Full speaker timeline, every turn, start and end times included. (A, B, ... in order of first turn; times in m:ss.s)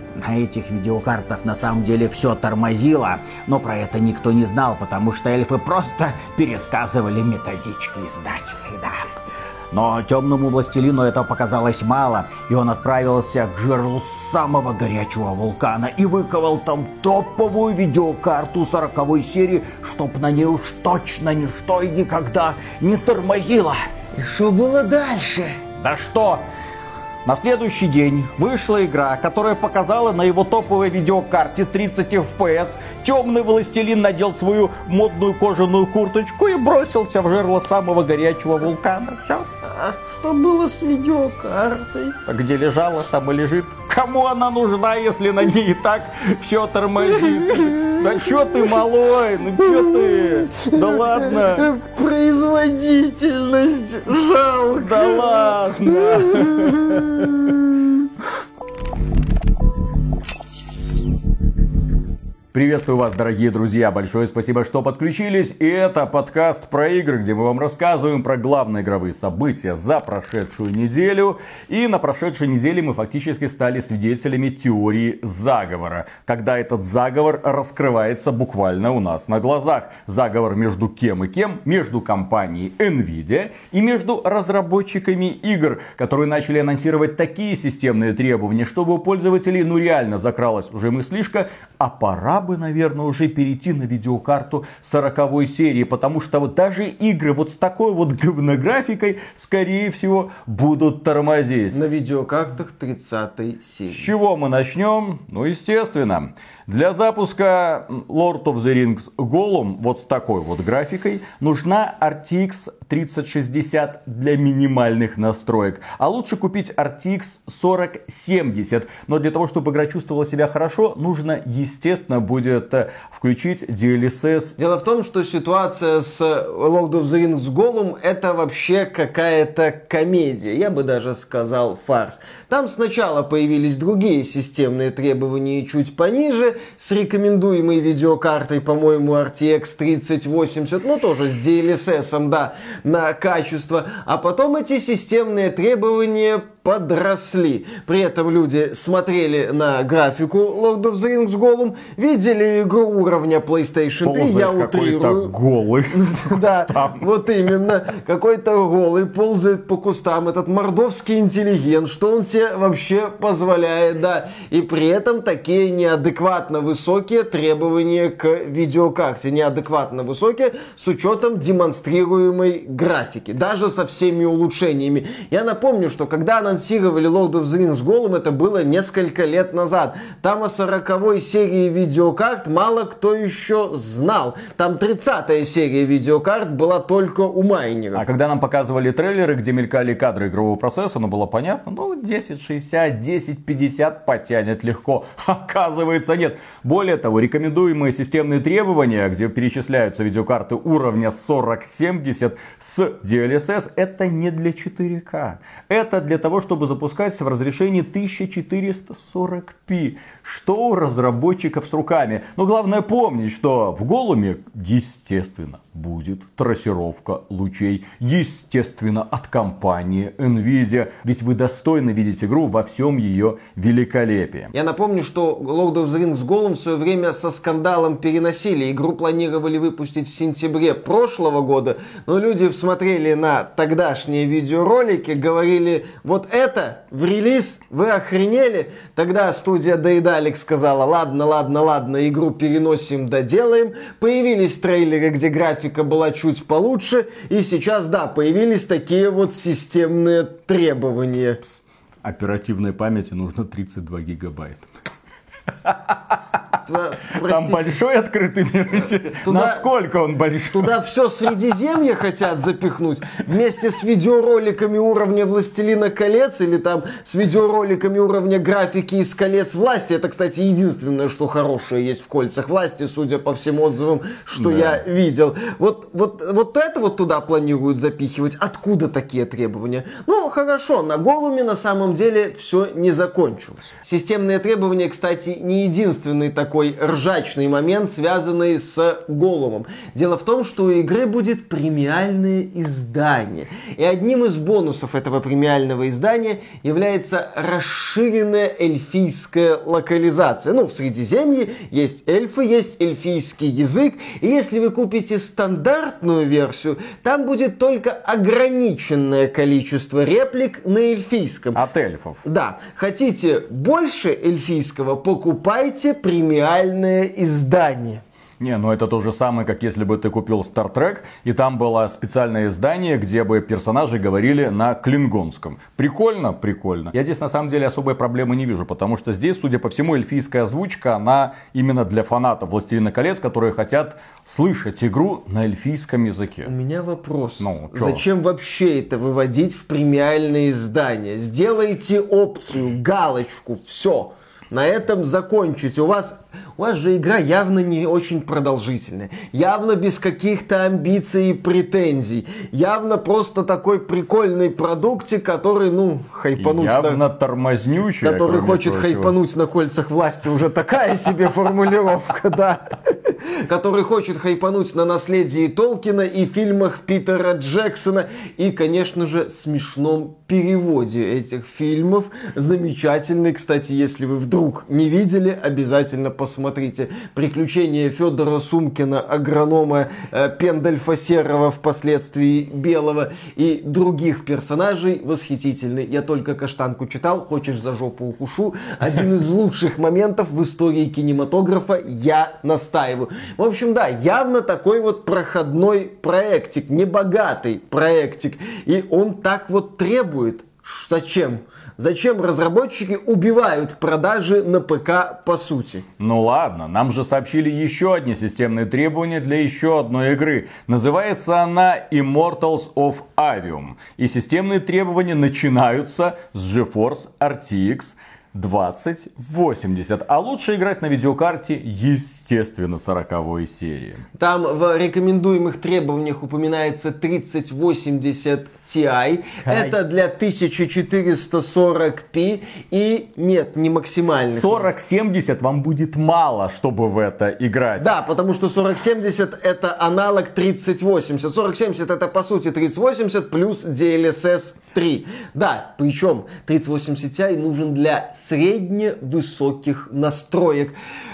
0:00.2-0:09.0 A
0:09.7-0:23.8 A
0:24.2-0:25.6 B
0:25.7-0:26.4 A
0:27.2-0:39.5 A
0:39.6-0:42.2 B
0:42.3-0:51.7 A
0:47.1-0:48.8 B
0:49.6-0:57.7 B
0:54.8-0:57.3 A
1:02.5-1:41.8 A
1:41.7-1:44.1 B
1:43.9-2:04.6 A
2:04.6-2:35.3 B
2:34.0-2:37.0 A
2:35.9-3:08.1 B
3:07.9-3:44.5 A
3:44.5-4:11.4 B
4:11.4-4:14.7 A
4:15.6-4:16.2 A
4:16.7-4:17.8 B
4:17.1-4:20.7 A
4:19.2-4:19.7 B
4:20.5-5:11.6 B
4:34.4-4:34.8 A
5:11.6-5:12.2 A
5:12.2-5:18.0 B
5:18.4-5:36.5 A
5:36.4-5:57.0 B
5:37.4-5:38.0 A
5:56.4-5:59.1 A
5:58.0-6:45.8 B
6:46.0-7:04.0 A
7:04.2-7:14.7 B
7:09.4-7:09.8 A
7:14.3-7:17.9 A
7:17.8-7:30.7 B